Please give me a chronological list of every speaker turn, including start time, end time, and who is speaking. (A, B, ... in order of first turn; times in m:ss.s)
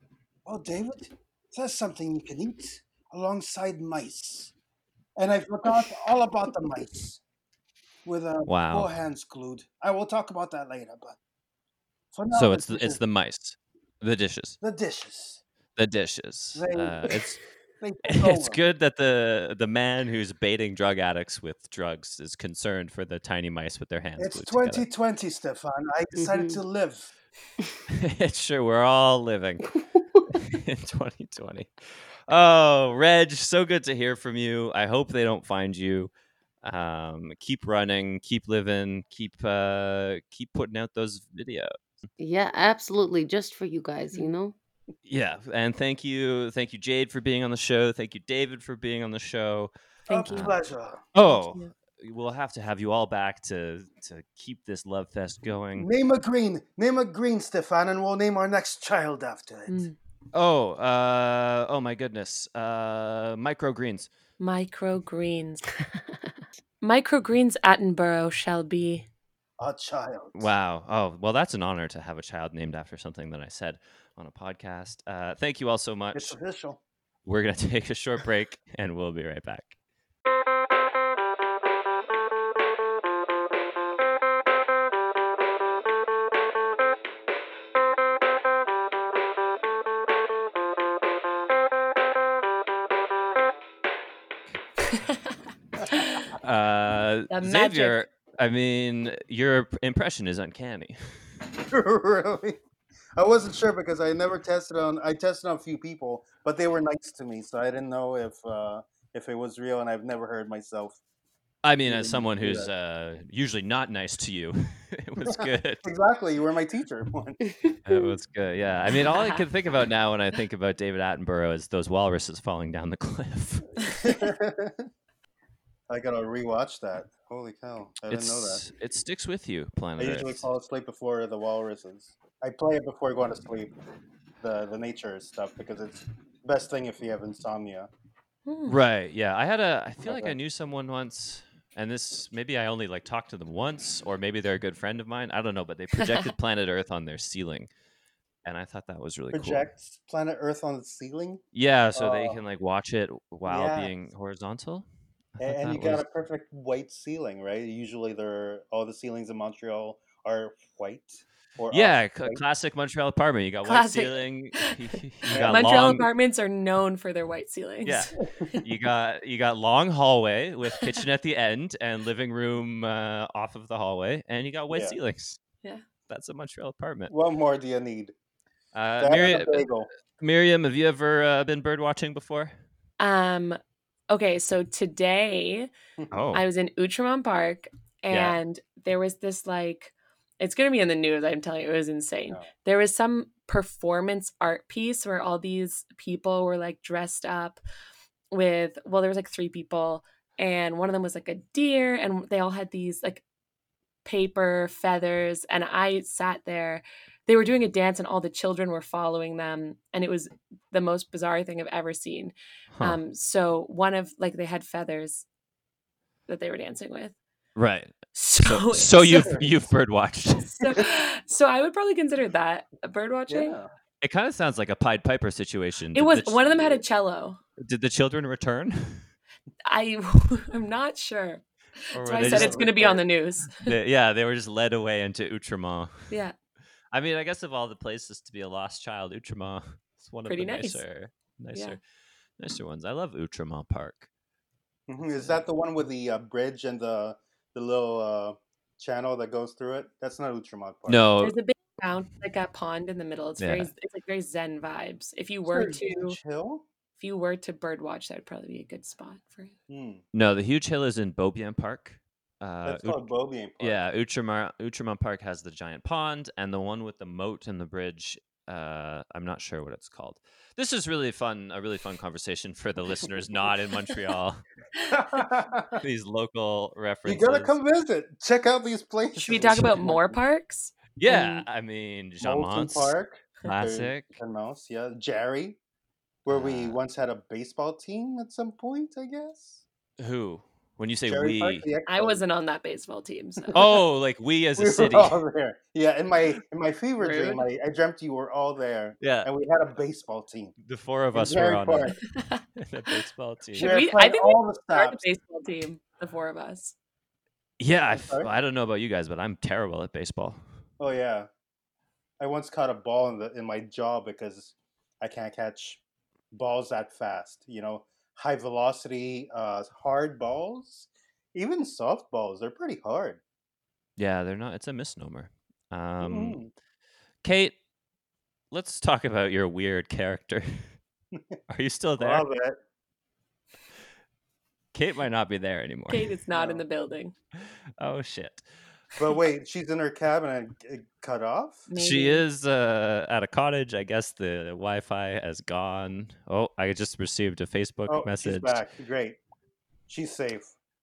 0:00.4-0:04.5 A
0:05.2-0:07.2 A
0:08.0-0:11.2 A
0:08.4-0:08.9 B
0:12.1-0:13.0 A
0:12.3-0:14.6 B
0:14.6-0:15.4 A
0:15.8-0:17.4 B
0:16.5-0:18.6 A
0:18.1-0:24.9 B
0:24.2-0:27.1 A
0:26.2-0:26.6 C
0:27.9-0:29.7 B
0:30.3-0:36.1 B
0:36.6-0:41.7 B
0:42.2-0:44.6 C
0:45.0-0:49.7 B
0:50.1-0:50.5 D
0:50.1-0:51.0 A
0:50.3-0:50.6 B
0:51.1-0:55.9 B
0:51.2-0:51.7 D
0:55.8-0:59.9 A
0:59.7-1:00.0 D
1:00.3-1:04.1 B
1:04.4-1:05.8 D
1:06.8-1:09.1 D
1:09.6-1:10.5 A
1:10.4-1:16.4 B
1:16.1-1:16.8 A
1:17.3-1:19.7 B
1:35.8-1:36.3 A
1:35.9-1:36.2 D
1:36.4-1:41.2 B
1:37.3-1:38.0 D
1:41.7-1:42.6 A
1:43.2-1:51.0 A
1:51.6-1:55.9 B
1:51.9-1:52.7 A
1:55.3-1:57.5 A
1:57.9-2:04.1 B
1:59.0-1:59.4 D
2:03.9-2:04.9 A
2:05.9-2:08.6 A
2:08.1-2:10.4 B
2:10.0-2:13.7 A
2:14.4-2:17.9 A
2:18.4-2:18.8 D
2:18.7-2:27.7 B
2:20.0-2:20.4 A
2:28.4-2:29.7 B
2:29.3-2:31.4 A
2:31.5-2:34.9 B
2:32.0-2:32.4 A
2:33.5-2:33.9 A
2:35.4-2:36.0 B
2:35.4-2:42.4 A
2:41.7-2:46.0 B
2:43.6-2:44.7 D
2:45.3-2:46.1 A
2:45.4-2:48.1 D
2:47.9-2:55.4 B
2:54.7-2:55.0 A
2:56.1-2:57.1 B
2:57.1-2:58.1 A
2:58.7-2:59.7 B
2:59.0-2:59.9 A
3:00.2-3:02.5 B
3:03.0-3:03.6 D
3:04.1-3:05.7 D
3:06.1-3:06.4 B
3:06.3-3:17.6 D
3:08.1-3:08.4 B
3:18.3-3:23.2 D
3:24.0-3:35.3 D
3:32.7-3:33.0 B
3:36.3-3:37.1 D
3:37.6-3:40.6 B
3:38.1-3:39.5 D
3:40.4-3:43.6 D
3:43.3-3:43.7 A
3:44.0-3:46.8 B
3:46.0-3:47.4 D
3:47.6-3:49.1 B
3:49.7-3:53.7 D
3:51.9-3:53.0 B
3:52.1-3:53.0 A
3:53.6-3:56.1 B
3:56.1-3:56.4 D
3:56.9-4:01.8 B
4:00.3-4:00.8 D
4:02.4-4:04.1 B
4:04.9-4:11.0 A
4:10.9-4:11.3 B
4:11.2-4:16.2 D
4:13.4-4:13.7 B
4:15.4-4:16.6 A
4:17.0-4:19.5 D
4:19.7-4:20.0 A
4:20.1-4:23.0 B
4:22.6-4:23.8 A
4:23.6-4:34.4 B
4:34.9-4:35.8 A
4:35.8-4:37.5 B
4:37.0-4:40.2 A
4:39.1-4:41.4 D
4:41.0-4:44.1 B
4:42.2-4:45.6 A
4:46.3-4:49.6 A
4:46.3-4:46.8 B
4:50.0-4:51.7 B
4:51.1-4:52.2 A
4:51.9-4:53.8 D
4:53.5-4:55.2 B
4:54.6-5:00.5 A
4:57.0-4:57.4 D
4:59.0-4:59.3 B
5:00.6-5:02.0 B
5:01.1-5:02.0 A
5:02.1-5:02.4 D
5:02.6-5:03.8 B
5:03.6-5:05.0 A
5:03.6-5:06.7 D
5:07.6-5:10.4 B
5:07.9-5:08.3 A
5:10.8-5:11.3 A
5:12.2-5:15.8 A
5:16.3-5:23.2 A
5:24.0-5:26.4 B
5:26.0-5:26.5 A
5:27.2-5:27.6 B
5:28.5-5:30.7 B
5:31.5-5:32.3 B
5:32.0-5:32.6 A
5:34.7-5:36.1 B
5:35.9-5:37.1 D
5:36.3-5:36.6 A
5:37.8-5:38.4 B
5:39.0-5:41.7 A
5:41.7-5:42.2 D
5:41.7-5:48.6 B
5:47.9-5:49.2 A
5:49.9-5:50.5 A